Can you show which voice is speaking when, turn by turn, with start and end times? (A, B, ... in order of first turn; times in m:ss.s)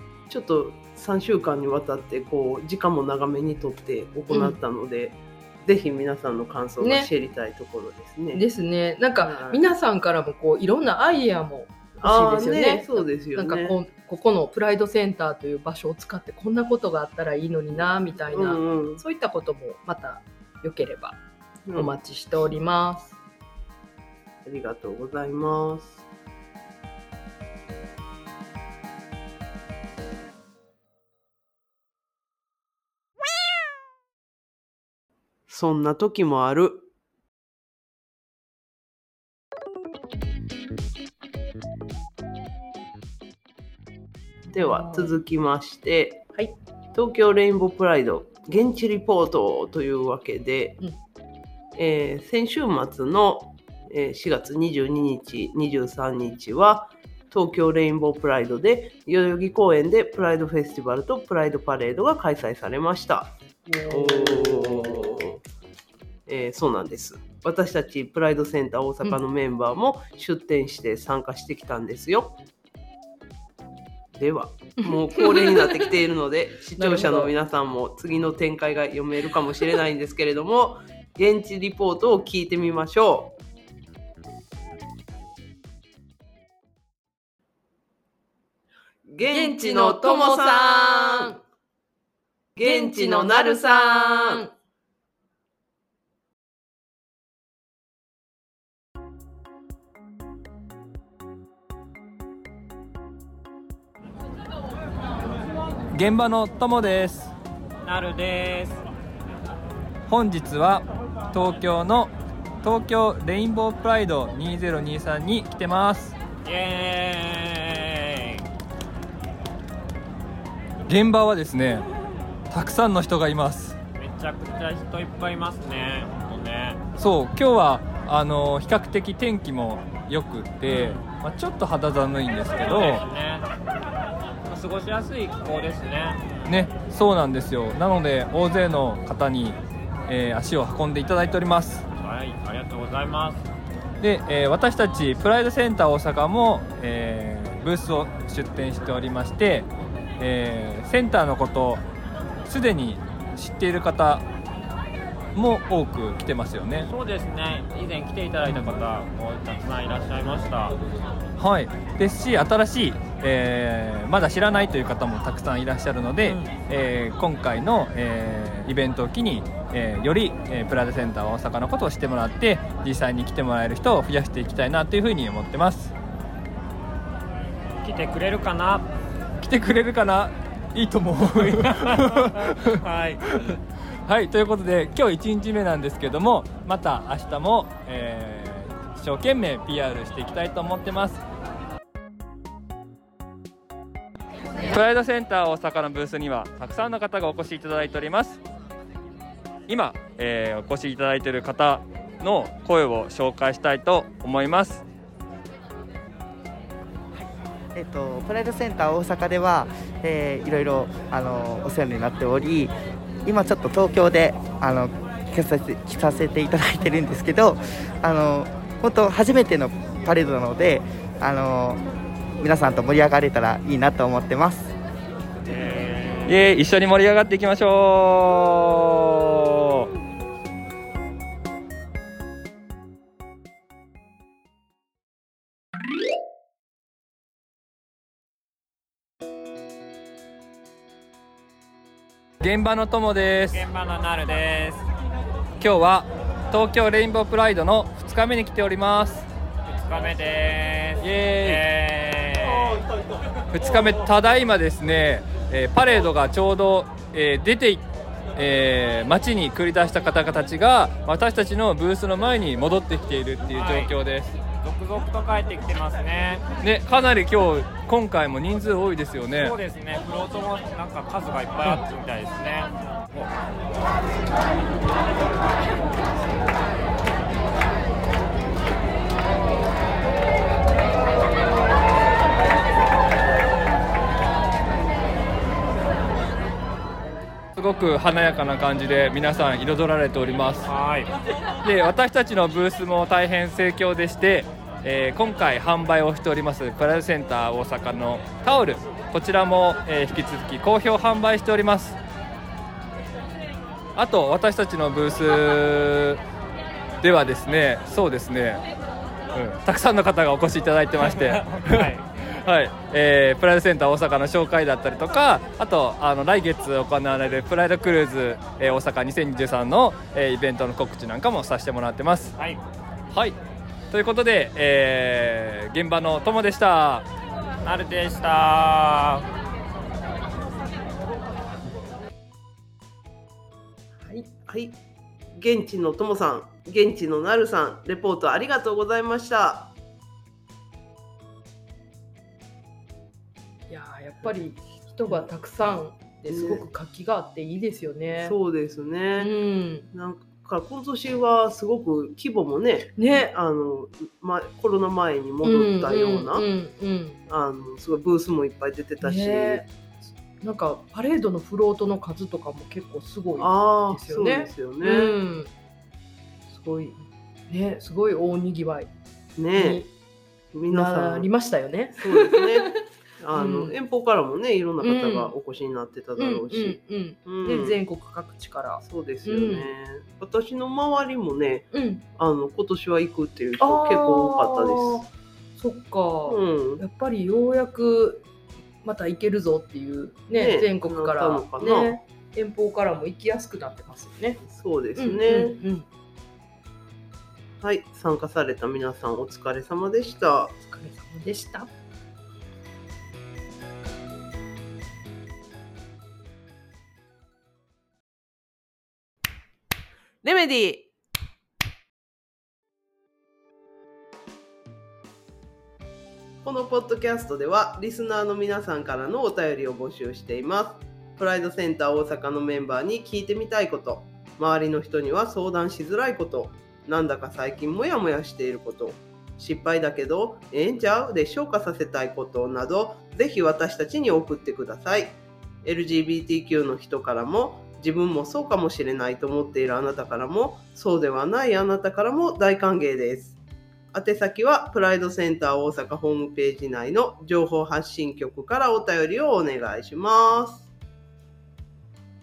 0:00.3-0:08.4 A
0:04.3-0:04.6 B
0:06.8-0:07.1 B
0:08.3-0:21.2 B
0:09.2-0:09.6 A
0:12.0-0:13.8 A
0:18.3-0:19.0 A
0:21.7-0:23.2 B
0:24.4-0:26.0 A
0:35.5-0:36.9 A
0:44.5-0:46.3 A
0:44.5-0:45.2 B
0:46.9-0:50.8 A
0:51.8-1:03.4 A
1:03.6-1:05.2 B
1:03.9-1:05.4 A
1:06.3-1:12.4 A
1:14.1-1:23.4 A
1:14.8-1:15.9 B
1:16.8-1:17.3 B
1:29.0-1:31.3 A
1:29.2-1:31.4 B
1:32.6-1:34.4 A
1:32.6-1:34.5 B
1:45.9-1:47.3 C
1:47.8-1:48.8 D
1:50.1-1:52.1 C
1:52.6-1:56.1 C
1:56.4-1:58.4 D
2:00.9-2:01.8 C
2:02.5-2:03.8 C
2:03.9-2:06.8 D
2:07.0-2:13.0 C
2:10.7-2:11.0 D
2:12.6-2:13.5 D
2:14.5-2:16.4 D
2:16.4-2:21.8 C
2:22.0-2:23.4 D
2:24.0-2:29.7 C
2:30.2-2:31.8 C
2:32.4-2:34.2 C
2:35.3-2:36.9 C
2:36.8-2:40.8 D
2:41.4-2:55.9 C
2:46.2-2:46.5 D
2:57.8-2:58.9 D
2:59.4-3:03.5 C
3:01.7-3:02.0 D
3:02.8-3:03.2 D
3:04.0-3:11.2 C
3:14.6-3:18.4 C
3:19.7-3:24.8 C
3:27.1-3:32.7 E
3:33.2-3:41.8 E
3:42.4-3:44.7 E
3:45.4-3:46.4 D
3:46.3-3:49.8 C
4:02.4-4:03.6 C
4:03.5-4:04.8 D
4:05.6-4:09.3 C
4:09.7-4:12.8 D
4:11.0-4:11.6 C
4:13.5-4:17.8 C
4:18.4-4:24.3 C
4:23.5-4:23.9 D
4:24.5-4:26.4 D
4:26.6-4:29.6 C
4:29.4-4:33.3 D
4:47.5-4:50.7 C
4:50.6-4:51.1 D
4:51.6-5:02.0 C
5:03.9-5:06.2 C
5:07.0-5:08.6 C
5:09.3-5:11.9 C
5:11.0-5:12.0 D
5:12.4-5:22.3 C
5:23.9-5:27.0 C
5:27.6-5:29.2 D
5:34.0-5:34.3 B
5:34.5-5:34.8 A
5:35.3-5:39.7 A
5:43.7-5:48.4 B
5:46.3-5:46.6 A
5:48.2-5:49.3 A
5:49.2-5:49.9 B
5:49.9-5:56.4 A
5:53.0-5:53.3 B
5:55.4-5:57.2 B
5:57.3-5:59.6 A
5:59.0-6:05.5 B
6:03.4-6:05.1 A
6:06.5-6:06.9 B
6:06.7-6:07.0 A
6:07.5-6:08.9 B
6:09.4-6:09.9 A
6:09.5-6:09.9 B
6:10.5-6:11.3 A
6:10.7-6:12.8 B
6:12.0-6:12.7 A
6:13.2-6:17.8 A
6:13.3-6:13.7 B
6:14.8-6:15.3 B
6:16.2-6:19.7 B
6:18.8-6:25.1 A
6:21.7-6:22.0 B
6:23.6-6:25.0 B
6:25.6-6:28.2 B
6:26.3-6:26.8 A
6:28.8-6:34.4 B
6:30.3-6:31.9 A
6:34.4-6:35.6 A
6:35.0-6:35.9 B
6:37.6-6:40.5 A
6:40.5-6:41.7 B
6:50.2-6:50.9 A
6:56.4-7:23.4 A
7:23.9-7:30.7 A